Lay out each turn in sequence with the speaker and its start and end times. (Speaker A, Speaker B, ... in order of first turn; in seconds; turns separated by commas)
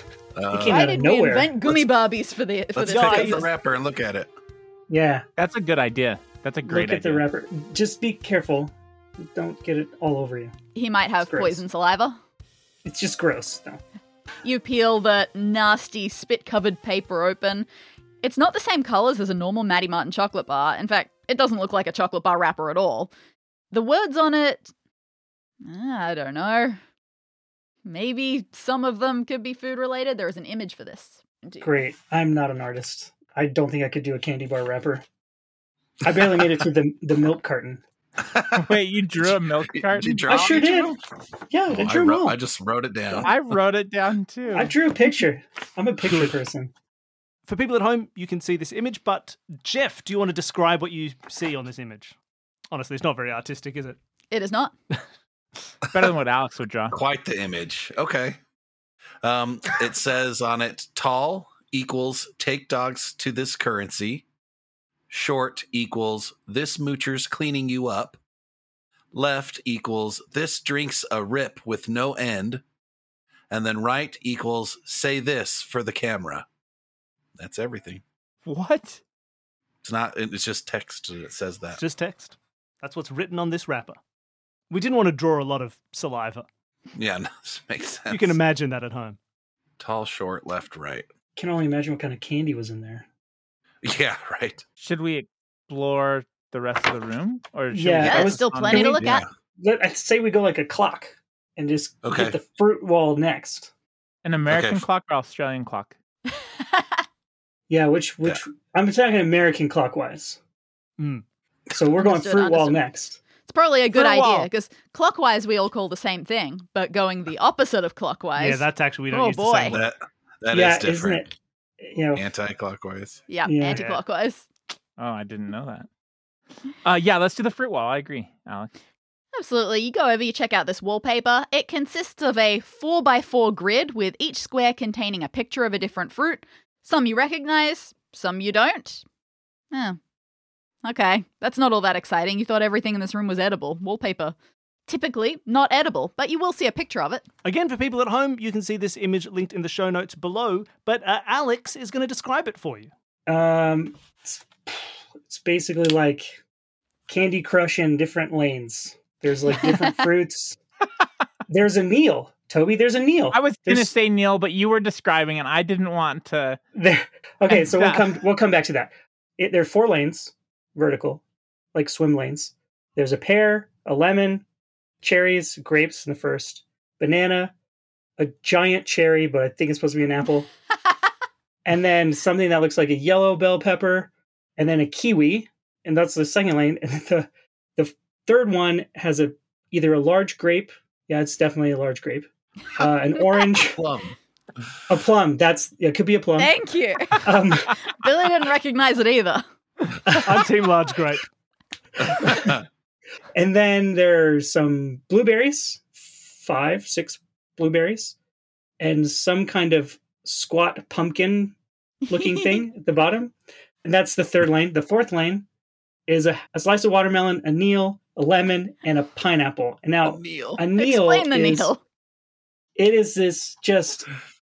Speaker A: 0.3-0.8, Speaker B: 0.5-1.6, Speaker C: 0.6-3.5, Speaker A: 2.7-4.3, Speaker D: 2.9-3.4, Speaker B: 4.9-5.2, Speaker E: 5.4-7.2, Speaker B: 6.6-10.6, Speaker C: 10.7-12.2, Speaker B: 11.2-11.6, Speaker B: 12.8-13.8, Speaker C: 14.4-17.7, Speaker C: 18.2-23.1, Speaker C: 23.7-24.7, Speaker C: 25.6-26.8, Speaker C: 27.9-31.7, Speaker B: 31.6-35.0, Speaker B: 36.0-37.8, Speaker A: 38.2-41.0, Speaker E: 38.5-40.4, Speaker B: 40.3-41.0, Speaker B: 41.5-42.4, Speaker A: 41.7-43.5, Speaker E: 43.2-44.7, Speaker B: 44.5-46.7, Speaker D: 46.0-46.4, Speaker D: 47.5-52.1, Speaker D: 52.7-54.0, Speaker C: 54.3-54.7, Speaker E: 55.9-57.0, Speaker A: 56.9-58.4, Speaker A: 59.2-64.2, Speaker A: 65.1-68.2, Speaker A: 69.1-72.6, Speaker A: 73.5-76.5, Speaker A: 77.4-78.0, Speaker E: 78.5-79.0, Speaker A: 79.8-81.8, Speaker D: 81.8-84.0, Speaker D: 84.7-86.5, Speaker A: 86.9-88.4, Speaker D: 88.1-89.2, Speaker A: 89.8-91.1, Speaker B: 91.3-93.0, Speaker A: 93.8-94.6, Speaker E: 94.8-99.0, Speaker B: 97.7-99.0, Speaker C: 98.0-99.2, Speaker A: 99.0-99.3, Speaker B: 99.6-103.7, Speaker A: 102.0-102.4, Speaker E: 104.2-105.9, Speaker A: 104.5-104.8, Speaker C: 106.6-107.0, Speaker B: 107.7-110.4, Speaker D: 111.0-111.2, Speaker B: 111.7-113.2, Speaker C: 112.0-112.8, Speaker C: 113.5-119.8, Speaker E: 113.9-114.5, Speaker D: 118.4-119.9, Speaker A: 119.7-121.3, Speaker B: 120.5-122.3, Speaker A: 122.1-123.2, Speaker C: 123.3-124.5, Speaker B: 123.5-123.8, Speaker D: 123.7-124.0, Speaker E: 125.0-125.9, Speaker E: 126.8-128.7, Speaker C: 129.3-139.0, Speaker C: 139.7-140.0, Speaker C: 140.8-144.3, Speaker C: 144.9-147.2, Speaker D: 147.4-152.9, Speaker B: 153.3-156.4, Speaker B: 157.1-160.6, Speaker B: 161.5-163.9, Speaker E: 163.3-166.6, Speaker B: 166.7-171.2, Speaker E: 167.5-168.2, Speaker B: 171.7-174.4, Speaker B: 175.0-177.5, Speaker B: 178.2-180.5, Speaker B: 181.6-193.8, Speaker A: 193.6-194.2, Speaker B: 194.9-196.5, Speaker C: 196.4-199.4, Speaker B: 197.1-197.7, Speaker D: 200.2-201.2, Speaker A: 202.0-202.6, Speaker B: 202.2-202.5, Speaker B: 203.3-208.2, Speaker B: 208.8-211.6, Speaker C: 212.1-212.6, Speaker B: 212.1-215.4, Speaker B: 216.1-221.7, Speaker A: 220.0-220.6, Speaker C: 220.7-221.8, Speaker B: 222.8-224.1